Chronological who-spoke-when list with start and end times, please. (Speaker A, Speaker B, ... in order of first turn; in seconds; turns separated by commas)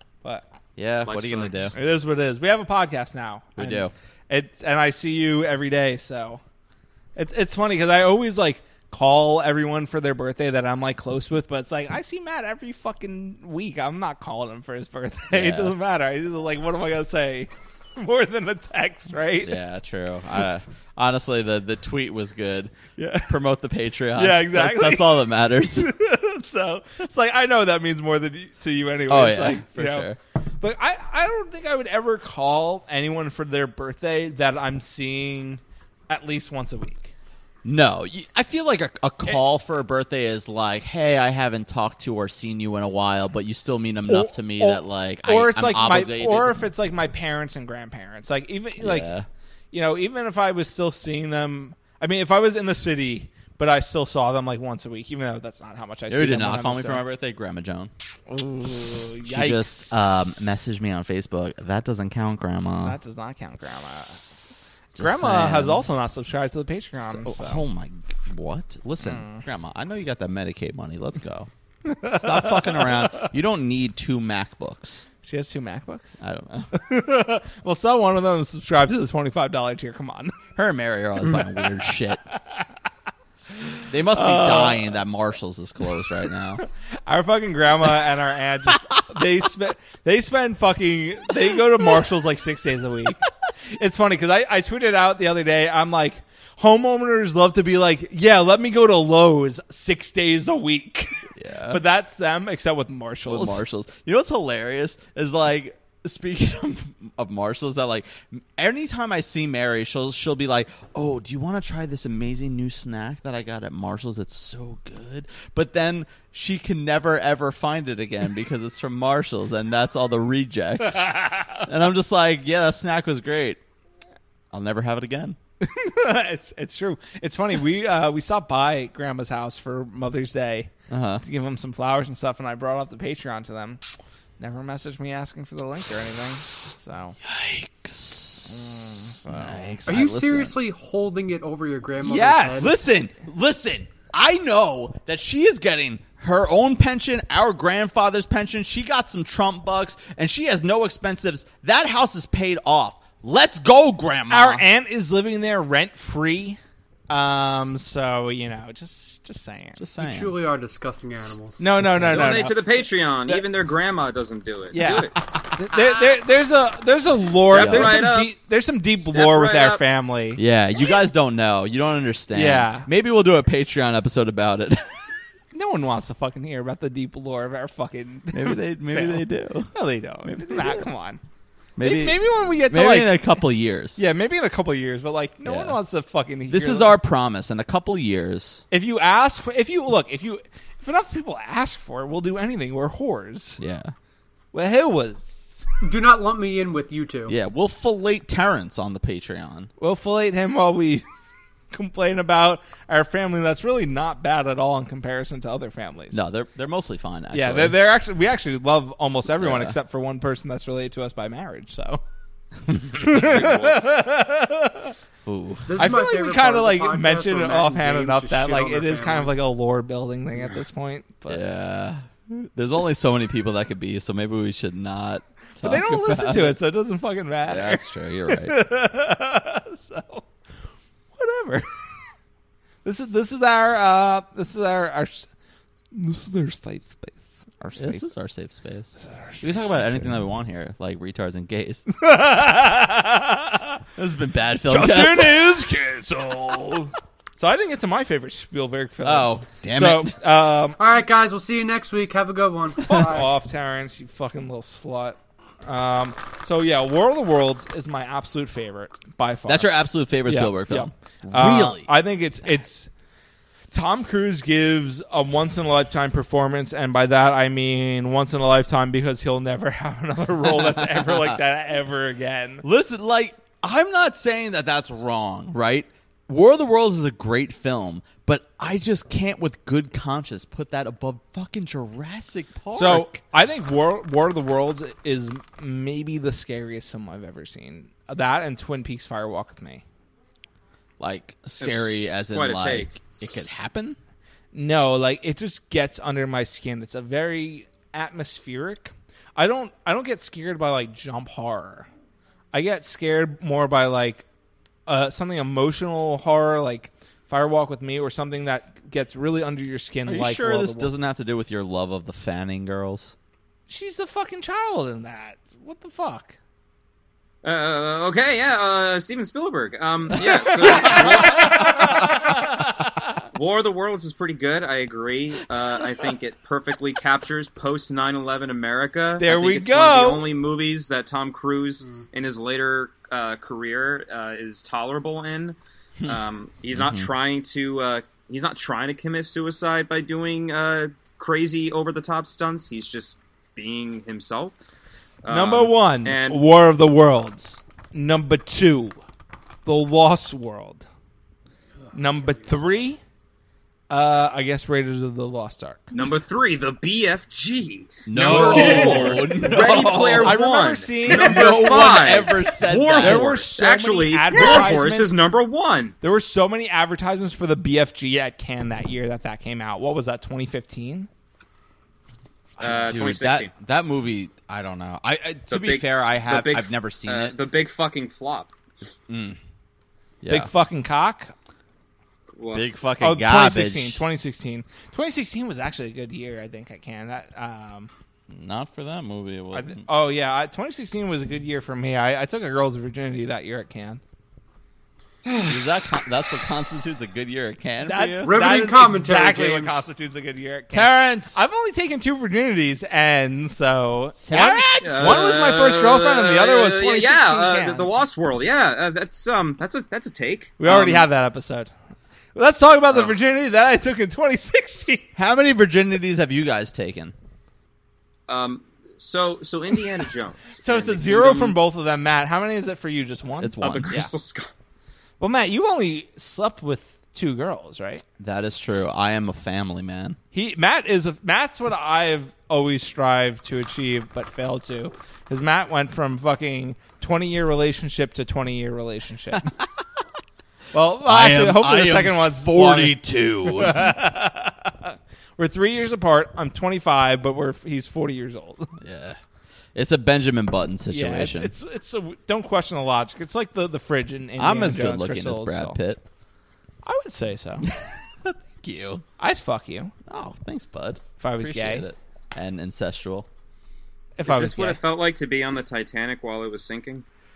Speaker A: 0.8-1.7, Speaker B: 1.0-1.7, Speaker C: 1.7-6.4, Speaker A: 3.6-3.9, Speaker C: 7.2-19.6, Speaker A: 15.3-15.7, Speaker A: 19.4-25.9, Speaker C: 22.9-23.4, Speaker C: 24.1-37.1, Speaker A: 29.1-30.2, Speaker A: 37.6-46.6, Speaker C: 44.1-49.1, Speaker A: 48.8-49.3, Speaker C: 49.7-57.0, Speaker A: 56.1-57.9, Speaker C: 58.3-60.0, Speaker A: 59.2-63.0, Speaker C: 62.8-64.3, Speaker A: 64.9-65.8, Speaker C: 65.0-67.6, Speaker A: 67.0-71.5, Speaker C: 69.0-69.4, Speaker C: 71.8-73.2, Speaker A: 72.0-75.0, Speaker C: 75.2-76.2, Speaker A: 76.2-76.7, Speaker C: 76.7-80.3, Speaker A: 80.5-82.2, Speaker C: 83.6-85.0, Speaker A: 83.9-86.6, Speaker C: 86.6-103.6, Speaker A: 101.3-101.8, Speaker A: 103.3-123.6, Speaker C: 120.8-121.7, Speaker A: 124.5-125.4, Speaker C: 125.6-133.8, Speaker A: 130.9-131.2, Speaker C: 134.4-137.2, Speaker A: 137.2-140.6, Speaker C: 138.5-139.8, Speaker D: 139.8-142.7, Speaker C: 142.0-142.7, Speaker A: 142.6-154.7, Speaker C: 154.3-159.8, Speaker A: 159.8-160.3, Speaker D: 160.0-161.6, Speaker C: 161.6-162.6, Speaker A: 161.8-162.3, Speaker B: 162.1-165.2, Speaker C: 164.7-170.4, Speaker A: 167.4-168.1, Speaker B: 167.5-168.3, Speaker B: 169.0-169.8, Speaker A: 170.4-175.1, Speaker C: 172.3-172.9, Speaker C: 175.5-181.2, Speaker A: 178.3-179.7, Speaker A: 180.2-180.8, Speaker A: 181.8-184.0, Speaker C: 181.8-183.4, Speaker C: 183.9-187.0, Speaker A: 185.4-185.8, Speaker A: 186.5-188.6, Speaker C: 188.7-193.6, Speaker A: 193.6-193.9, Speaker C: 194.5-195.6, Speaker D: 195.8-197.3, Speaker A: 197.3-199.7, Speaker C: 199.8-201.0, Speaker C: 201.7-206.2, Speaker A: 206.1-207.8, Speaker C: 207.3-212.0, Speaker A: 209.4-209.8, Speaker A: 212.7-213.2, Speaker C: 212.9-214.9, Speaker B: 213.1-213.9, Speaker A: 215.2-216.0, Speaker D: 215.7-219.3, Speaker C: 215.8-221.4, Speaker A: 221.3-226.6, Speaker C: 225.6-230.3, Speaker A: 227.5-228.6, Speaker C: 231.1-231.8, Speaker C: 232.8-235.3, Speaker C: 235.9-238.1, Speaker A: 237.8-241.8, Speaker C: 239.0-240.1, Speaker C: 241.9-243.8, Speaker A: 243.9-245.7, Speaker C: 244.7-250.8, Speaker A: 249.0-250.2, Speaker D: 250.8-253.3, Speaker C: 252.8-259.7, Speaker A: 259.5-261.9, Speaker C: 260.2-262.9, Speaker C: 263.7-272.6, Speaker A: 270.4-271.4, Speaker A: 272.6-283.2, Speaker C: 282.7-289.8, Speaker A: 291.0-294.0, Speaker B: 291.6-292.9, Speaker C: 294.5-301.9, Speaker C: 302.5-304.2, Speaker C: 304.9-310.9, Speaker A: 310.1-313.1, Speaker C: 313.7-316.4, Speaker B: 317.4-322.2, Speaker C: 320.2-323.1, Speaker B: 323.3-344.5, Speaker C: 329.2-330.3, Speaker A: 336.7-337.1, Speaker B: 345.2-346.4, Speaker C: 345.3-349.0, Speaker C: 349.6-350.8, Speaker C: 351.9-353.0, Speaker C: 353.9-355.9, Speaker B: 355.9-365.9, Speaker A: 358.1-360.4, Speaker C: 358.1-362.3, Speaker A: 361.0-363.4, Speaker C: 363.0-365.1, Speaker C: 366.0-371.1, Speaker A: 372.6-377.3, Speaker B: 372.6-373.5, Speaker B: 375.5-378.5, Speaker A: 379.1-379.4, Speaker A: 380.2-380.5, Speaker C: 380.3-381.3, Speaker B: 382.4-382.6, Speaker A: 382.5-384.0, Speaker C: 383.0-387.9, Speaker A: 388.3-389.9, Speaker C: 389.5-394.0, Speaker A: 395.5-398.4, Speaker C: 397.8-408.0, Speaker D: 398.2-399.8, Speaker A: 400.7-401.4, Speaker A: 404.1-405.3, Speaker B: 404.8-411.1, Speaker C: 410.6-411.7, Speaker C: 412.3-415.1, Speaker A: 415.1-417.1, Speaker B: 418.3-421.6, Speaker C: 420.6-424.1, Speaker A: 423.4-424.1, Speaker B: 423.6-424.5, Speaker C: 425.2-428.0, Speaker A: 428.2-430.2, Speaker C: 430.3-439.5, Speaker C: 440.7-448.8, Speaker A: 441.0-443.9, Speaker A: 448.8-449.2, Speaker A: 449.7-451.5, Speaker C: 450.9-455.8, Speaker A: 454.4-456.0, Speaker C: 456.8-457.7, Speaker A: 457.7-459.0, Speaker C: 459.2-459.9, Speaker A: 460.1-463.3, Speaker C: 461.2-461.9, Speaker C: 464.2-464.8, Speaker B: 464.2-467.0